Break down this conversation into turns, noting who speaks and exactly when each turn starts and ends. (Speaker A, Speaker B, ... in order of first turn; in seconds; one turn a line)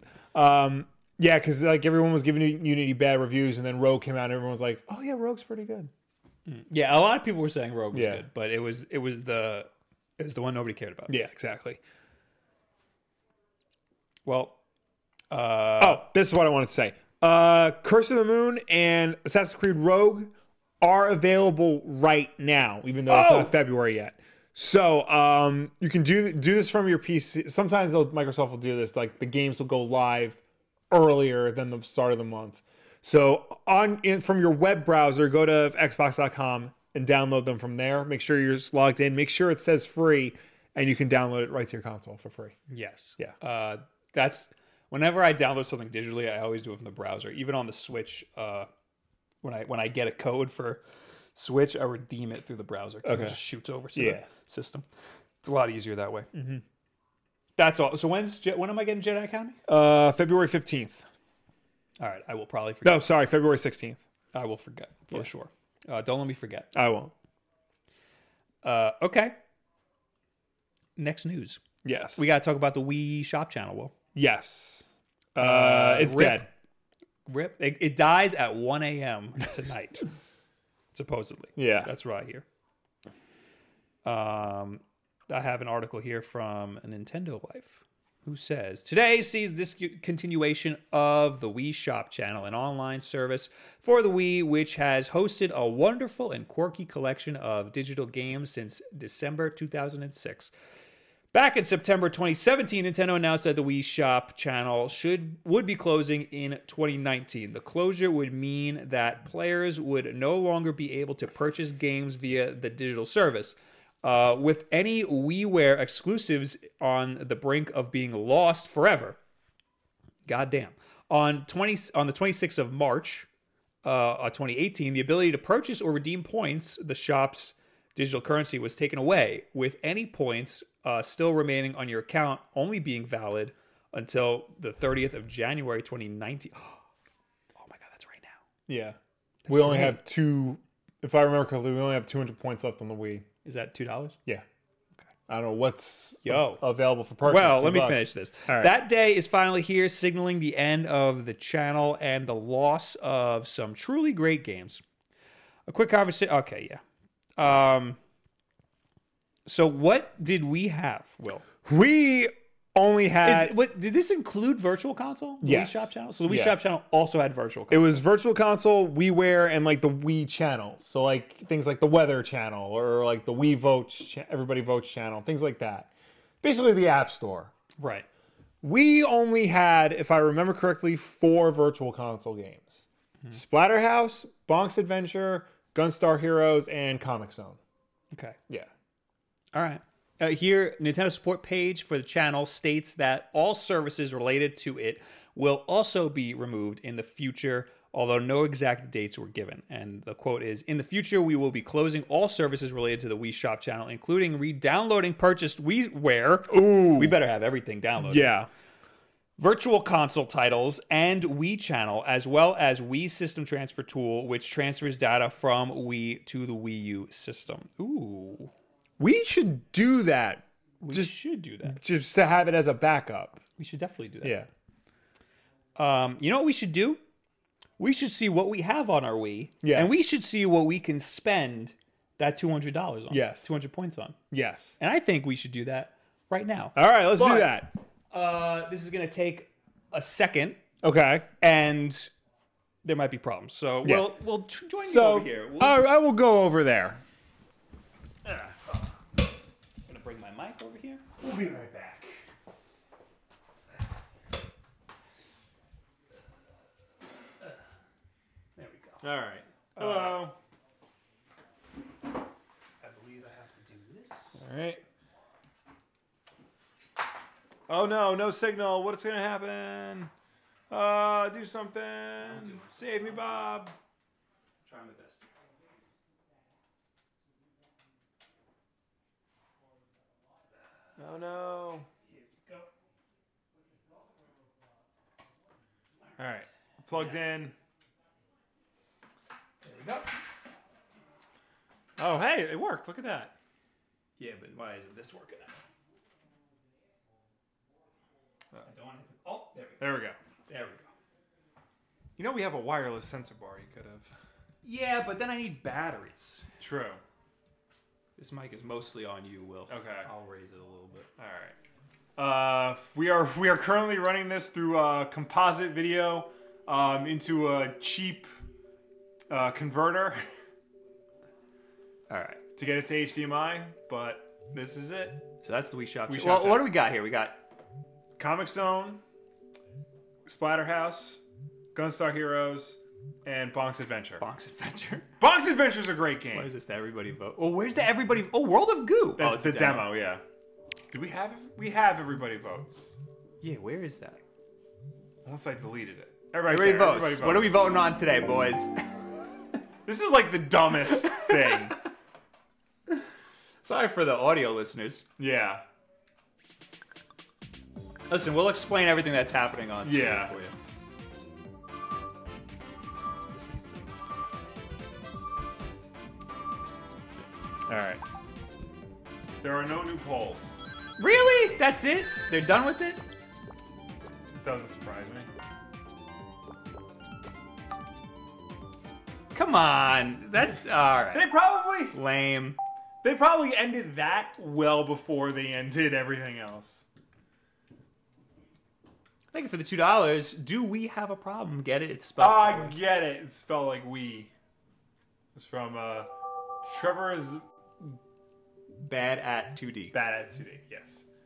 Speaker A: 0.3-5.9
Speaker B: 6.5-11.2
Speaker A: 7.9-8.2
Speaker A: 11.1-11.8
Speaker B: 14.2-14.6
Speaker B: 15.3-16.0
Speaker A: 15.8-42.5
Speaker B: 23.1-23.5
Speaker B: 42.7-48.7
Speaker B: 49.4-50.8
Speaker B: 51.3-54.9
Speaker A: 53.0-53.4
Speaker A: 53.9-54.2
Speaker B: 55.4-56.3
Speaker A: 56.3-56.6
Speaker B: 57.6-59.6
Speaker A: 59.7-61.0
Speaker B: 62.0-63.0
Speaker A: 62.8-64.0
Speaker B: 64.3-66.7
Speaker A: 66.7-67.1
Speaker B: 68.6-69.3
Speaker B: 71.0-71.6
Speaker A: 71.8-72.3
Speaker B: 72.2-73.9
Speaker A: 74.1-76.5
Speaker B: 75.4-76.4
Speaker B: 77.2-80.0
Speaker B: 80.9-82.4
Speaker A: 81.5-81.9
Speaker B: 84.0-100.5
Speaker B: 101.3-119.2
Speaker B: 120.2-123.3
Speaker B: 123.8-136.8
Speaker B: 137.6-138.4
Speaker A: 138.7-139.0
Speaker B: 139.4-140.0
Speaker A: 139.5-143.2
Speaker B: 143.4-144.2
Speaker A: 145.3-148.7
Speaker B: 146.2-146.6
Speaker B: 147.2-154.8
Speaker B: 155.7-156.8
Speaker B: 157.4-158.0
Speaker B: 159.5-161.4
Speaker A: 161.6-163.5
Speaker B: 163.2-168.0
Speaker A: 165.4-166.6
Speaker A: 167.7-175.9
Speaker A: 176.4-177.5
Speaker B: 177.8-178.1
Speaker A: 178.6-187.6
Speaker B: 188.1-188.4
Speaker B: 189.5-208.3
Speaker A: 206.5-207.2
Speaker A: 208.0-208.5
Speaker B: 209.4-218.5
Speaker A: 219.0-223.4
Speaker B: 220.8-221.8
Speaker B: 223.6-224.4
Speaker A: 224.2-224.5
Speaker B: 225.8-227.0
Speaker B: 227.8-234.2
Speaker A: 229.6-230.0
Speaker A: 233.1-233.5
Speaker A: 234.3-234.8
Speaker B: 234.8-240.6
Speaker A: 236.7-237.7
Speaker A: 240.8-241.2
Speaker B: 241.4-242.1
Speaker B: 242.8-245.8
Speaker A: 243.8-244.1
Speaker A: 244.8-247.0
Speaker B: 249.8-251.2
Speaker A: 251.2-252.1
Speaker B: 258.6-259.1
Speaker A: 259.0-260.4
Speaker B: 259.8-260.3
Speaker B: 262.8-264.4
Speaker A: 264.4-264.8
Speaker A: 267.7-270.1
Speaker A: 270.7-273.7
Speaker B: 272.2-273.6
Speaker B: 274.6-275.2
Speaker A: 281.0-281.9
Speaker B: 282.1-282.7
Speaker A: 286.2-287.5
Speaker B: 286.9-287.2
Speaker B: 289.6-290.2
Speaker A: 292.0-293.4
Speaker B: 294.2-295.6
Speaker B: 298.6-300.9
Speaker A: 299.8-300.2
Speaker A: 302.2-304.2
Speaker B: 304.6-306.5
Speaker A: 306.6-307.0
Speaker B: 308.2-311.1
Speaker A: 309.7-310.1
Speaker A: 311.2-311.6
Speaker A: 312.1-318.3
Speaker A: 319.3-320.2
Speaker B: 322.1-322.4
Speaker A: 322.6-325.2
Speaker B: 325.4-327.4
Speaker A: 326.1-326.7
Speaker A: 328.2-329.0
Speaker A: 330.2-334.2
Speaker B: 334.2-335.1
Speaker A: 335.2-336.5
Speaker B: 336.3-339.9
Speaker A: 339.2-340.2
Speaker A: 340.9-343.0
Speaker B: 343.4-344.2
Speaker A: 345.2-347.8
Speaker B: 346.5-348.8
Speaker A: 349.8-351.8
Speaker B: 350.9-351.6
Speaker B: 353.6-355.0
Speaker A: 355.2-355.6
Speaker B: 358.1-360.5
Speaker A: 359.8-360.3
Speaker B: 363.3-364.2
Speaker A: 367.7-368.0
Speaker A: 369.4-370.6
Speaker B: 371.0-373.0
Speaker A: 374.4-375.3
Speaker B: 379.3-381.3
Speaker A: 381.1-382.0
Speaker B: 381.9-382.6
Speaker A: 383.0-386.9
Speaker B: 389.3-392.8
Speaker A: 392.2-394.3
Speaker A: 395.3-396.1
Speaker A: 396.6-398.0
Speaker B: 398.8-400.0
Speaker A: 399.9-401.0